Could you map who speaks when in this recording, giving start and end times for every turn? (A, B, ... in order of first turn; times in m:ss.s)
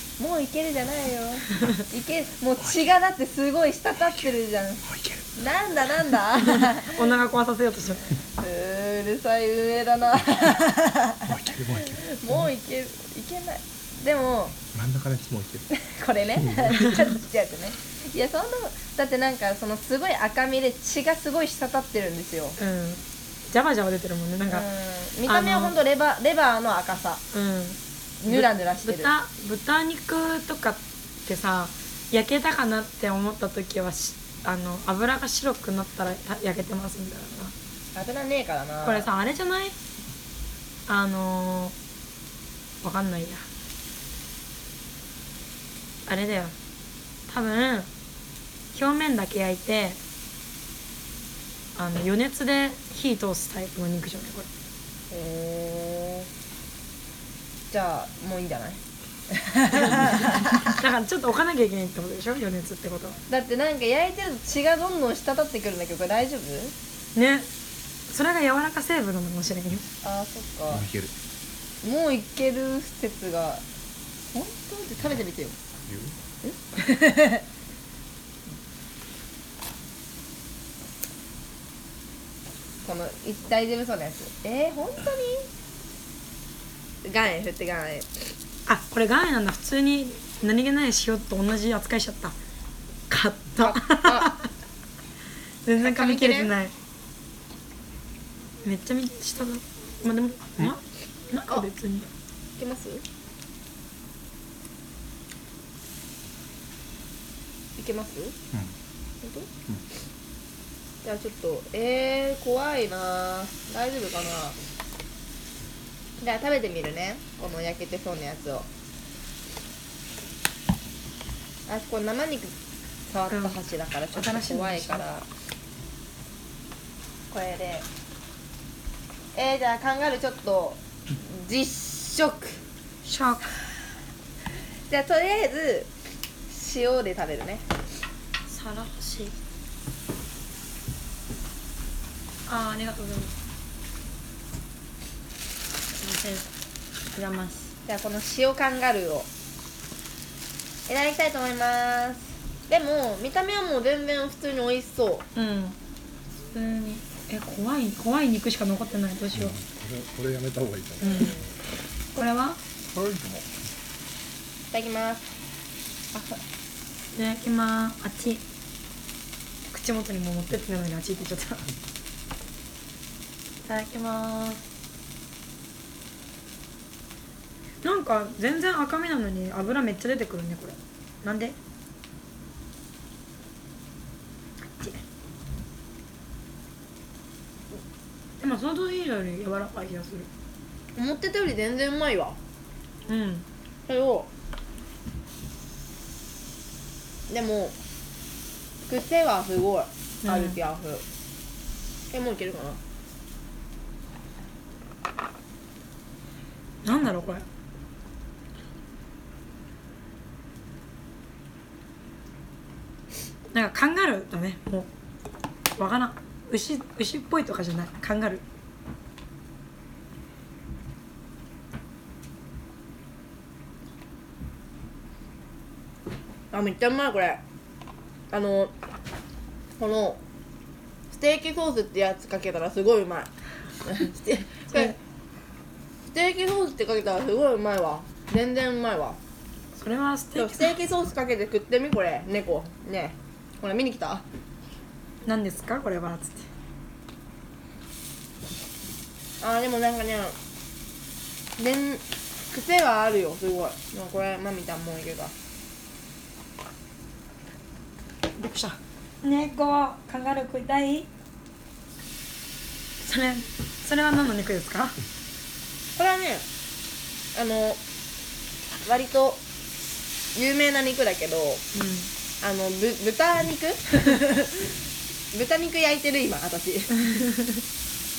0:00.2-0:07.1 A
0:04.9-0:05.2 B
0:06.4-0:08.2 C
0:08.4-0:11.2 A
0:11.3-0:12.0 B
0:11.8-0:14.6 A
0:14.7-0:15.7 B
0:15.7-0:22.6 A
0:22.6-0:24.7 C
0:24.5-0:27.2 A
0:25.3-0:25.8 C
0:27.3-0:37.5 C
0:28.2-0:29.1 A
0:38.0-0:39.1 A
0:38.8-0:39.8 C
0:40.9-0:41.8 C
0:42.8-0:43.4 C
0:46.1-0:46.6 C
0:47.3-0:47.9 C
0:48.7-0:50.0 C
0:51.8-0:54.5 C
0:55.1-0:56.3 A
0:57.7-0:58.8 A
0:59.3-1:00.8 A
1:00.7-1:03.2 C
1:03.3-1:06.7 A
1:07.2-1:07.5 C
1:08.1-1:09.9 C
1:10.0-1:10.9 A
1:10.7-1:11.1 B
1:11.8-1:13.6 A
1:14.3-1:15.6 A
1:15.9-1:16.2 B
1:16.4-1:17.4 A
1:22.8-1:25.5 A
1:27.0-1:28.2 A
1:28.7-1:32.4 C
1:33.1-1:34.5 C
1:33.6-1:34.4 A
1:35.6-1:36.7 C
1:35.8-1:36.5 A
1:38.6-1:42.1 C
1:42.6-1:43.0 A
1:47.8-1:48.4 A
1:49.2-1:49.5 A
1:51.0-1:54.6 A
1:56.2-1:58.7 A
2:01.7-2:02.5 A
2:03.1-2:05.3 A
2:03.3-2:03.6 C
2:04.1-2:05.0 C
2:07.3-2:07.9 A
2:09.4-2:12.6 A
2:13.0-2:13.6 C
2:14.9-2:15.9 A
2:16.5-2:17.6 A
2:18.5-2:19.4 C
2:22.5-2:23.3 C
2:26.0-2:26.5 C
2:27.1-2:27.7 C
2:27.9-2:29.3 A
2:30.9-2:35.2 A
2:35.4-2:35.8 C
2:36.4-2:39.6 C
2:39.3-2:41.1 B
2:41.0-2:41.5 A
2:41.0-2:41.3 C
2:42.2-2:42.6 C
2:42.9-2:43.5 B
2:44.7-2:45.4 A
2:46.1-2:46.4 A
2:47.1-2:48.4 C
2:49.7-2:51.7 C
2:53.6-2:54.6 C
2:57.8-3:01.6 C
3:08.4-3:10.3 C
3:11.0-3:12.4 A
3:13.1-3:13.4 C
3:13.9-3:14.3 A
3:17.3-3:17.8 A
3:18.9-3:21.0 A
3:20.2-3:20.6 C
3:22.1-3:22.8 A
3:26.8-3:27.4 C
3:33.5-3:34.9 C
3:35.8-3:38.4 C
3:46.5-3:47.4 A
3:48.3-3:48.7 A
3:49.8-3:50.2 A
3:51.1-3:53.3 A
3:53.8-3:55.0 A
3:54.7-3:55.0 C
3:56.1-3:59.2 A
3:59.7-4:00.8 C
4:00.4-4:04.2 A
4:05.2-4:06.5 C
4:09.4-4:10.4 A
4:11.6-4:15.3 A
4:18.4-4:21.1 C
4:23.0-4:25.0 C
4:26.0-4:26.4 A
4:27.4-4:27.8 A
4:28.8-4:29.4 A
4:30.3-4:31.6 A
4:31.7-4:32.1 C
4:32.4-4:34.7 A
4:35.3-4:37.2 A
4:37.2-4:37.6 C